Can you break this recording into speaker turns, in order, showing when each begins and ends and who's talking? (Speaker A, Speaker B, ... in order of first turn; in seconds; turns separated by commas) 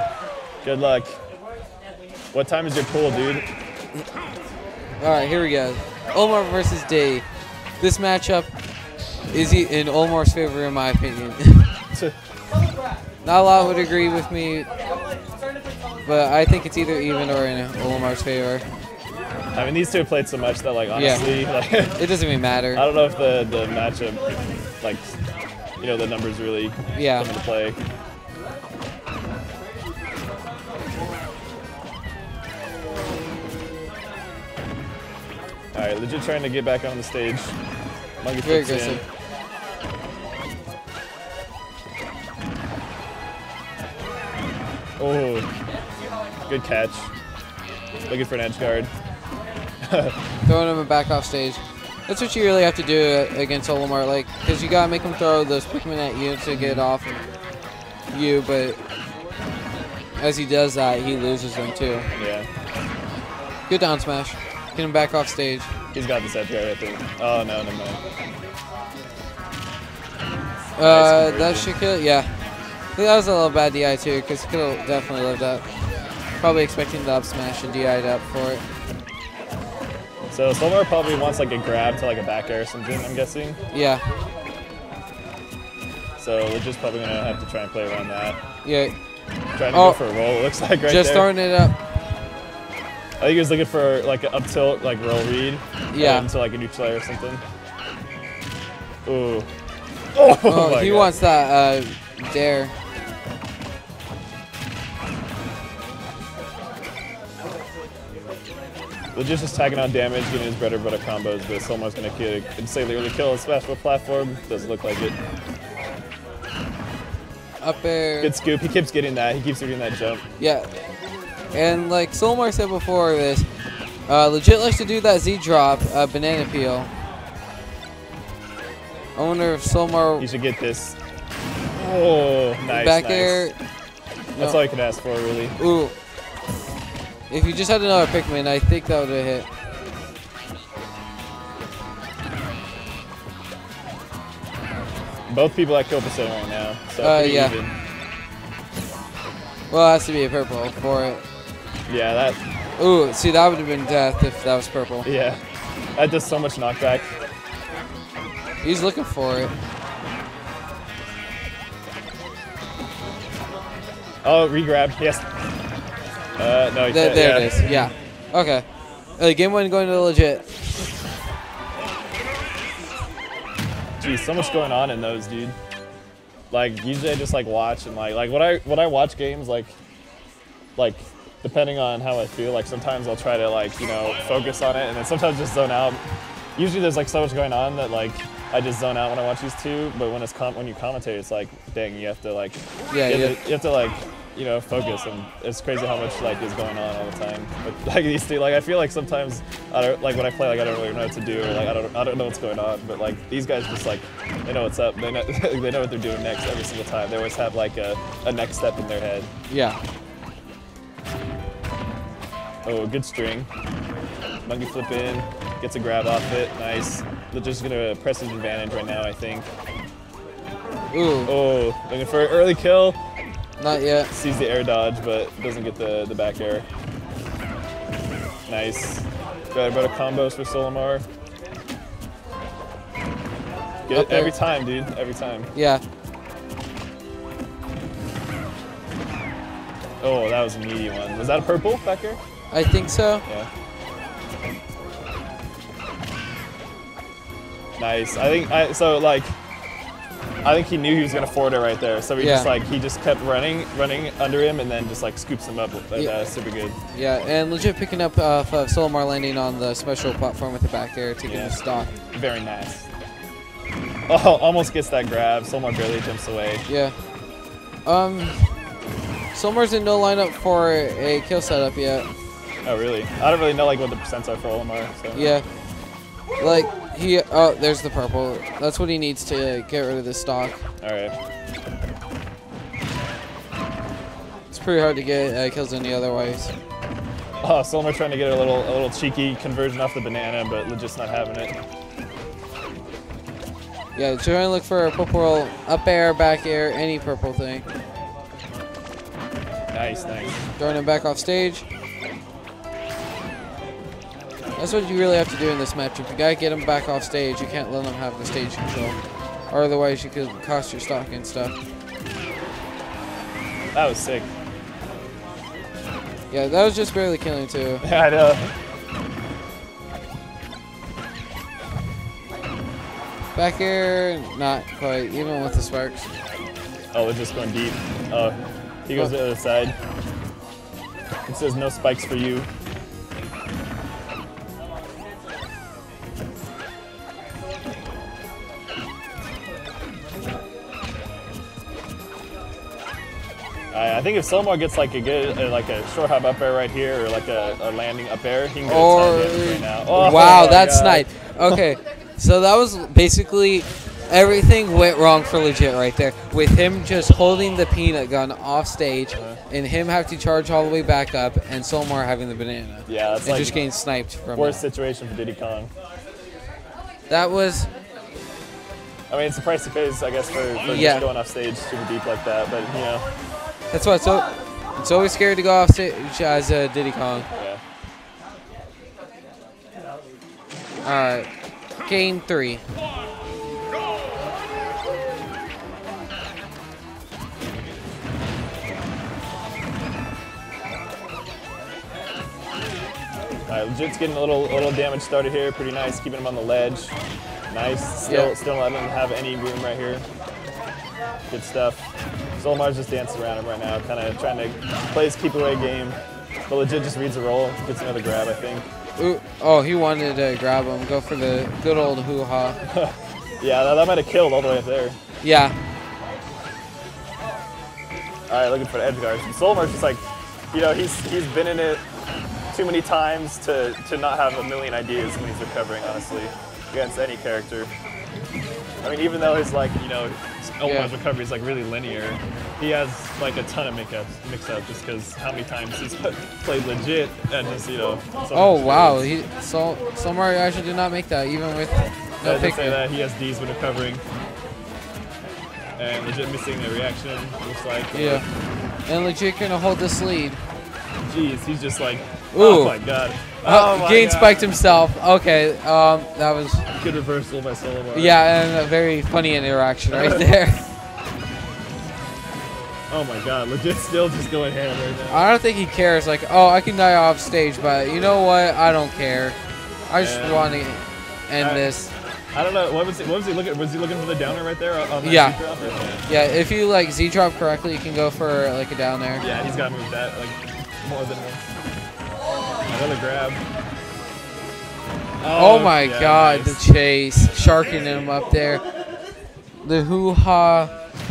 Speaker A: 0.6-1.2, Speaker A: 2.3-3.5, Speaker B: 5.0-7.2, Speaker B: 7.8-8.5, Speaker B: 9.3-11.7, Speaker B: 13.2-14.7, Speaker B: 16.0-18.6, Speaker A: 19.5-22.0, Speaker B: 20.9-21.3, Speaker B: 22.0-22.8, Speaker A: 22.7-24.2, Speaker A: 24.8-25.1, Speaker A: 25.8-27.8, Speaker B: 26.9-27.3, Speaker A: 35.7-37.5, Speaker A: 38.2-39.0, Speaker B: 38.4-39.0, Speaker A: 45.0-45.5, Speaker A: 46.5-47.1, Speaker A: 48.1-48.9, Speaker A: 49.9-50.1, Speaker B: 50.4-57.2, Speaker A: 56.5-56.8, Speaker B: 58.1-58.8, Speaker B: 60.2-62.1, Speaker A: 62.1-62.5, Speaker B: 63.7-65.7, Speaker A: 65.9-68.0, Speaker B: 70.8-72.4, Speaker A: 70.8-71.7, Speaker B: 73.0-75.7, Speaker B: 76.4-78.6, Speaker A: 80.3-83.6, Speaker B: 83.7-84.0, Speaker A: 86.2-88.4, Speaker B: 88.6-88.9, Speaker A: 89.6-91.3, Speaker B: 89.7-90.0, Speaker B: 90.8-91.8, Speaker A: 93.2-97.4, Speaker B: 95.9-96.3, Speaker A: 99.0-99.5, Speaker A: 100.1-101.1, Speaker B: 100.5-102.7, Speaker A: 109.1-115.2, Speaker B: 117.6-118.3, Speaker A: 118.2-120.2, Speaker B: 120.4-120.7, Speaker B: 121.5-123.5, Speaker B: 124.1-126.9, Speaker B: 129.2-130.2, Speaker A: 130.2-131.0, Speaker A: 131.8-133.5, Speaker B: 132.7-133.6, Speaker A: 134.4-135.6, Speaker B: 135.6-135.9, Speaker B: 137.3-139.5, Speaker A: 145.3-147.7, Speaker B: 147.0-147.6, Speaker B: 149.7-151.2, Speaker A: 151.9-152.4, Speaker B: 152.8-155.1, Speaker A: 155.0-155.4, Speaker A: 155.9-157.1, Speaker B: 158.6-159.5, Speaker A: 164.2-165.2, Speaker A: 166.4-167.9, Speaker B: 166.9-168.6, Speaker B: 169.2-170.5, Speaker A: 174.0-175.6, Speaker A: 176.5-179.8, Speaker A: 180.8-186.0, Speaker A: 186.6-209.3, Speaker B: 192.9-193.4, Speaker B: 209.5-209.8, Speaker A: 212.6-213.5, Speaker A: 214.4-219.5, Speaker B: 220.9-221.3, Speaker A: 221.2-223.0, Speaker B: 223.6-224.1, Speaker A: 224.1-226.7, Speaker A: 228.5-231.0, Speaker A: 233.9-235.5, Speaker B: 233.9-234.3, Speaker B: 235.5-235.8, Speaker A: 240.0-242.2, Speaker B: 242.5-243.2, Speaker A: 247.8-249.4, Speaker A: 250.4-256.8, Speaker B: 252.2-252.5, Speaker B: 256.9-261.9, Speaker A: 261.2-261.6, Speaker A: 262.1-262.9, Speaker A: 264.1-266.6, Speaker B: 266.7-266.9, Speaker B: 267.9-268.6, Speaker B: 269.3-272.1, Speaker A: 272.6-275.3, Speaker B: 275.1-275.4, Speaker B: 276.4-280.6, Speaker A: 280.8-281.1, Speaker B: 284.5-286.5, Speaker A: 287.4-291.5, Speaker B: 293.9-297.6, Speaker A: 299.7-300.4, Speaker B: 300.6-301.6, Speaker B: 304.6-308.9, Speaker B: 309.5-311.5, Speaker A: 313.7-314.3, Speaker B: 316.3-317.8, Speaker A: 317.8-318.5, Speaker B: 323.3-326.1, Speaker A: 326.9-329.8, Speaker A: 331.3-332.5, Speaker A: 343.7-351.5, Speaker B: 348.6-364.6, Speaker A: 359.1-359.4, Speaker A: 362.9-363.6, Speaker A: 364.3-365.7, Speaker B: 367.1-367.7, Speaker A: 369.1-373.1, Speaker B: 370.6-371.1, Speaker B: 373.7-377.3, Speaker A: 377.3-377.6, Speaker B: 380.8-381.3, Speaker B: 381.8-382.6, Speaker A: 393.5-396.9, Speaker A: 397.5-400.0, Speaker B: 398.1-398.3, Speaker A: 401.3-406.0, Speaker A: 406.5-408.7, Speaker B: 409.0-412.6, Speaker A: 412.7-415.0, Speaker B: 415.2-415.6, Speaker A: 418.3-421.8, Speaker A: 422.5-427.7, Speaker A: 428.8-439.1, Speaker B: 430.6-430.9, Speaker B: 438.3-442.8, Speaker A: 442.2-444.0, Speaker A: 445.8-448.2, Speaker B: 447.9-448.2, Speaker B: 448.9-450.4, Speaker A: 451.0-454.5, Speaker B: 452.3-452.8, Speaker B: 453.4-456.6, Speaker A: 456.8-458.2, Speaker B: 457.9-460.6, Speaker A: 459.9-460.2, Speaker A: 462.9-465.2, Speaker B: 465.1-469.4, Speaker B: 469.9-471.9, Speaker A: 470.0-470.5, Speaker A: 471.4-471.7, Speaker A: 472.3-476.1, Speaker B: 475.0-475.4, Speaker B: 476.1-479.3, Speaker A: 479.2-481.5, Speaker A: 482.7-483.4, Speaker A: 485.2-486.6, Speaker B: 485.3-488.6, Speaker B: 489.6-490.7